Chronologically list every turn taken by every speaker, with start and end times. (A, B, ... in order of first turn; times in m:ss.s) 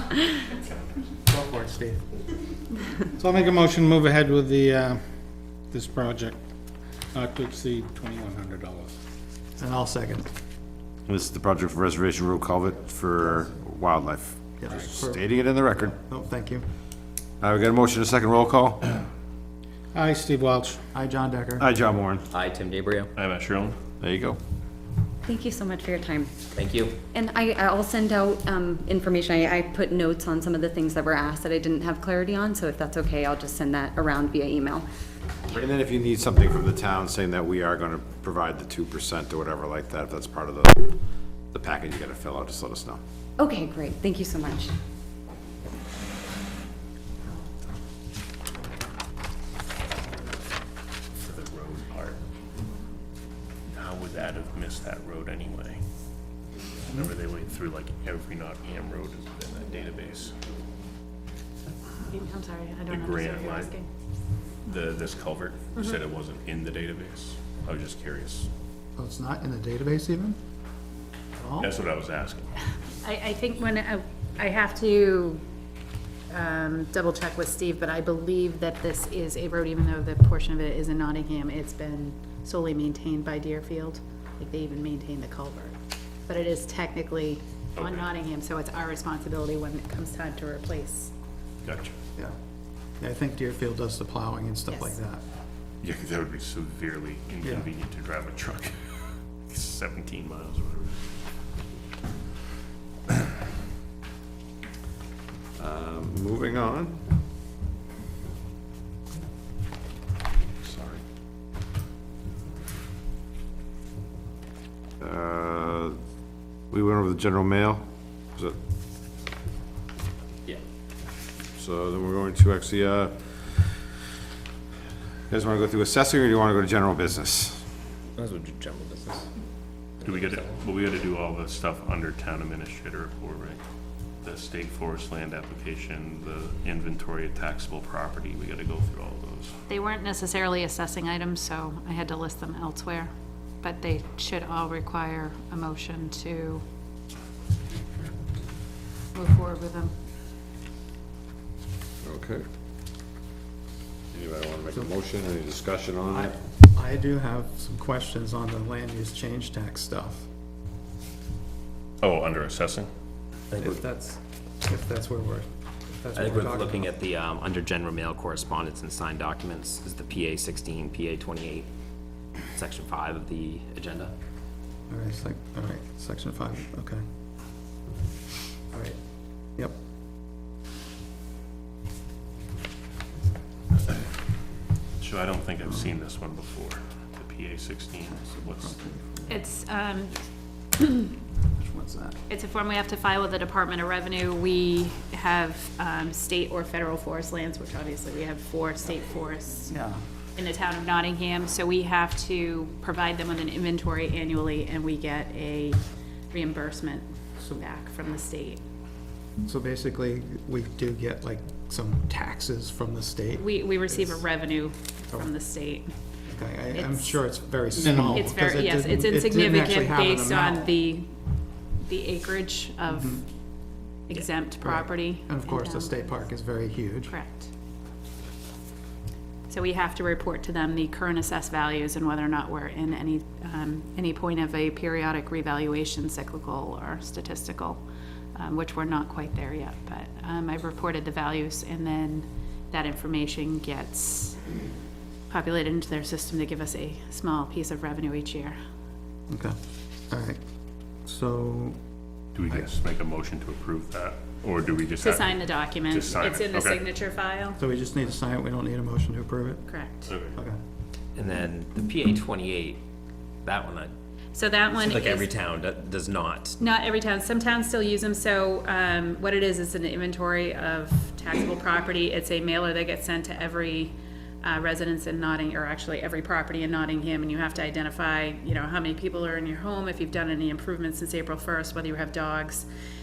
0:01.2-0:02.1 A
0:03.2-0:06.4 B
0:07.1-0:09.0 B
0:09.6-0:10.3 A
0:11.1-0:16.0 C
0:14.6-0:16.6 A
0:17.4-0:18.8 C
0:19.9-0:20.8 B
0:20.9-0:21.7 A
0:21.6-0:22.2 C
0:22.3-0:23.1 D
0:23.2-0:23.8 E
0:24.0-0:24.4 C
0:25.2-0:26.3 F
0:26.5-0:27.0 D
0:27.1-0:34.9 F
0:35.5-0:43.0 C
0:43.4-0:44.7 F
0:51.1-0:52.3 E
0:53.7-0:55.8 E
0:56.9-1:00.4 E
1:02.1-1:03.9 G
1:02.9-1:03.7 E
1:04.6-1:08.5 E
1:09.0-1:10.4 A
1:11.4-1:11.7 A
1:11.6-1:12.5 E
1:13.0-1:15.4 G
1:16.3-1:31.1 G
1:27.8-1:28.1 E
1:31.6-1:31.9 E
1:33.0-1:35.2 A
1:34.7-1:35.0 G
1:35.8-1:41.1 E
1:37.4-1:37.7 A
1:45.6-1:47.0 C
1:50.6-1:51.0 C
1:55.0-1:56.0 C
1:56.7-1:57.8 C
2:01.6-2:03.8 C
2:05.3-2:07.6 C
2:08.2-2:09.2 D
2:10.0-2:13.6 E
2:10.1-2:10.5 D
2:14.2-2:19.5 E
2:19.7-2:26.6 G
2:29.1-2:29.9 G
2:32.0-2:32.4 C
2:34.1-2:36.3 C
2:36.1-2:40.3 A
2:42.0-2:42.9 E
2:43.5-2:43.8 D
2:43.6-2:46.9 A
2:46.1-2:51.6 D
2:52.6-2:53.7 D
2:54.9-2:57.0 A
2:58.7-2:59.0 A
3:05.0-3:08.8 E
3:08.0-3:09.4 A
3:09.3-3:10.2 G
3:10.8-3:11.1 G
3:11.5-3:12.2 A
3:12.3-3:19.8 G
3:19.7-3:20.0 A
3:20.4-3:28.6 G
3:29.4-3:34.3 A
3:33.4-3:35.9 G
3:36.3-3:40.7 A
3:36.7-3:37.2 G
3:37.8-3:38.2 B
3:38.1-3:41.1 G
3:41.8-3:43.2 G
3:42.8-3:43.2 A
3:44.1-3:46.2 G
3:44.6-3:47.2 A
3:47.1-3:47.5 G
3:49.5-3:57.8 G
3:58.3-4:04.4 G
4:05.3-4:08.6 G
4:09.3-4:09.6 A
4:10.1-4:10.4 A
4:11.0-4:11.8 A
4:12.3-4:16.8 E
4:15.0-4:17.6 G
4:17.6-4:19.7 A
4:19.6-4:20.1 G
4:20.0-4:20.4 E
4:21.1-4:22.8 D
4:23.4-4:23.9 D
4:24.3-4:25.3 G
4:25.1-4:26.5 D
4:26.6-4:42.6 G